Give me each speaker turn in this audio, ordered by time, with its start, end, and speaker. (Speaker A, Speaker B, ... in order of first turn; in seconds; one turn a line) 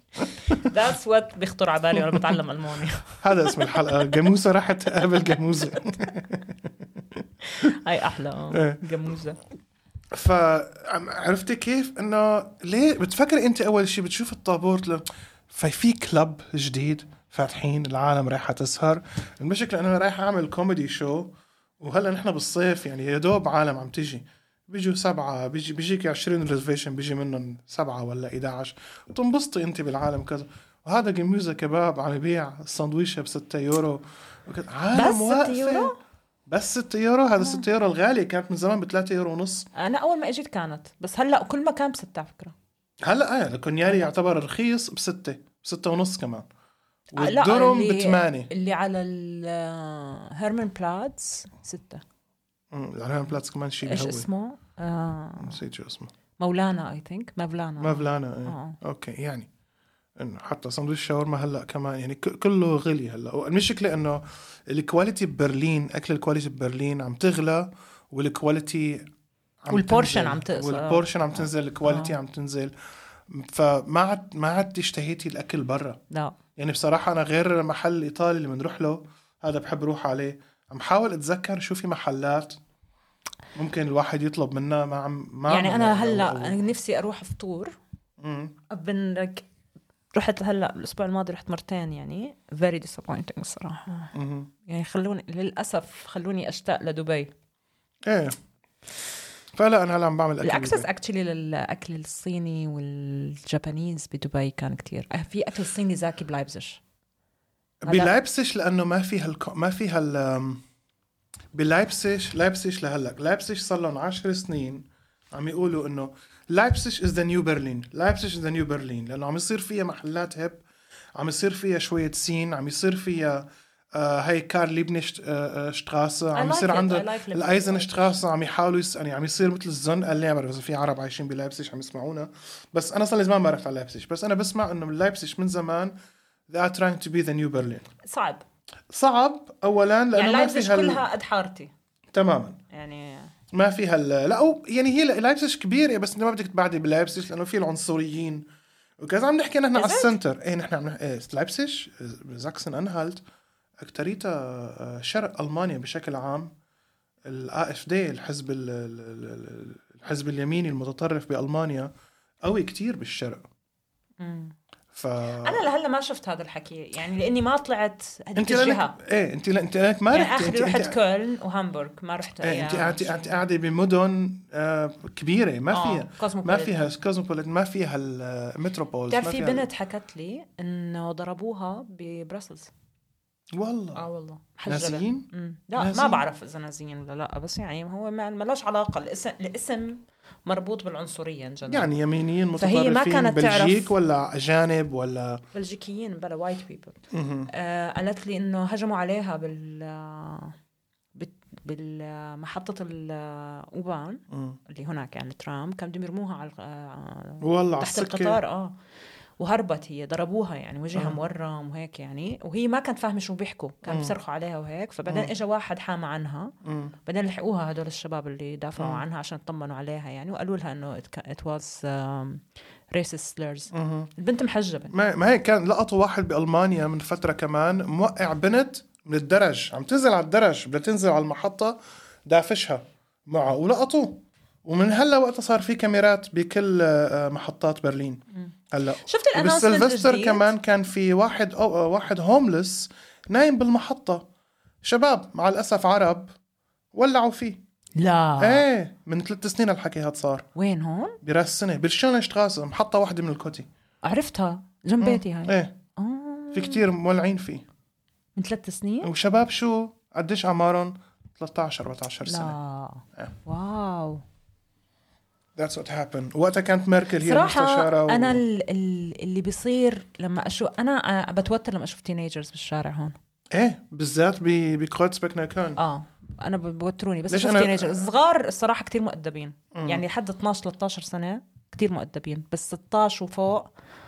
Speaker A: 0.5-4.2
Speaker B: 3.2-7.2
Speaker A: 7.4-9.4
Speaker B: 8.5-8.8
Speaker B: 10.1-35.9
Speaker A: 34.9-35.9
Speaker B: 36.5-39.7
Speaker A: 39.7-42.5
Speaker B: 43.0-46.5
Speaker B: 47.1-48.5
Speaker A: 47.1-52.0
Speaker B: 52.7-54.3
Speaker A: 53.8-55.6
Speaker B: 55.4-56.1
Speaker A: 56.4-58.8
Speaker B: 57.8-59.5
Speaker B: 60.2-69.1
Speaker B: 69.6-72.7
Speaker A: 69.7-71.1
Speaker A: 71.8-72.2
Speaker B: 73.3-76.0
Speaker A: 76.1-76.3
Speaker B: 76.5-82.6
Speaker B: 83.5-86.6
Speaker A: 85.5-87.7
Speaker B: 88.2-88.5
Speaker A: 88.7-89.4
Speaker A: 90.1-94.1
Speaker B: 94.1-94.5
Speaker A: 94.6-97.3
Speaker B: 98.0-98.3
Speaker B: 99.5-100.9
Speaker A: 100.4-106.8
Speaker B: 107.8-110.6
Speaker A: 107.8-108.1
Speaker B: 111.5-120.6
Speaker B: 121.2-135.9
Speaker A: 126.3-128.2
Speaker B: 136.5-137.8
Speaker A: 138.0-138.4
Speaker B: 138.9-141.0
Speaker A: 140.1-141.7
Speaker B: 142.1-142.6
Speaker A: 142.7-143.3
Speaker B: 143.5-148.5
Speaker B: 149.0-153.2
Speaker A: 149.7-150.1
Speaker B: 153.8-156.5
Speaker B: 157.2-161.9
Speaker B: 162.4-163.5
Speaker A: 164.2-164.5
Speaker B: 164.9-165.6
Speaker A: 165.4-169.0
Speaker B: 168.3-171.0
Speaker A: 170.1-173.4
Speaker B: 172.4-179.7
Speaker A: 175.7-176.8
Speaker A: 179.1-182.7
Speaker B: 183.5-184.0
Speaker A: 183.9-191.9
Speaker B: 184.7-186.2
Speaker B: 191.7-195.4
Speaker A: 192.6-193.9
Speaker A: 195.5-200.5
Speaker B: 197.1-197.5
Speaker A: 201.1-208.7
Speaker B: 204.3-204.6
Speaker B: 207.4-208.4
Speaker A: 209.4-216.5
Speaker B: 210.9-211.2
Speaker B: 213.8-214.1
Speaker B: 216.6-216.9
Speaker A: 217.1-224.9
Speaker B: 218.8-219.0
Speaker B: 223.7-224.1
Speaker B: 224.9-244.2
Speaker A: 239.1-240.5
Speaker B: 244.8-246.3
Speaker B: 246.9-247.6
Speaker A: 248.0-248.6
Speaker B: 248.4-250.5
Speaker A: 250.5-251.2
Speaker B: 251.2-253.7
Speaker A: 254.0-256.8
Speaker B: 255.0-255.7
Speaker B: 256.5-257.6
Speaker A: 258.4-259.1
Speaker B: 259.0-262.6
Speaker A: 262.2-264.2
Speaker B: 265.6-268.4
Speaker A: 267.2-273.1
Speaker B: 273.5-275.8
Speaker A: 275.8-283.7
Speaker B: 277.3-278.0
Speaker B: 279.7-280.0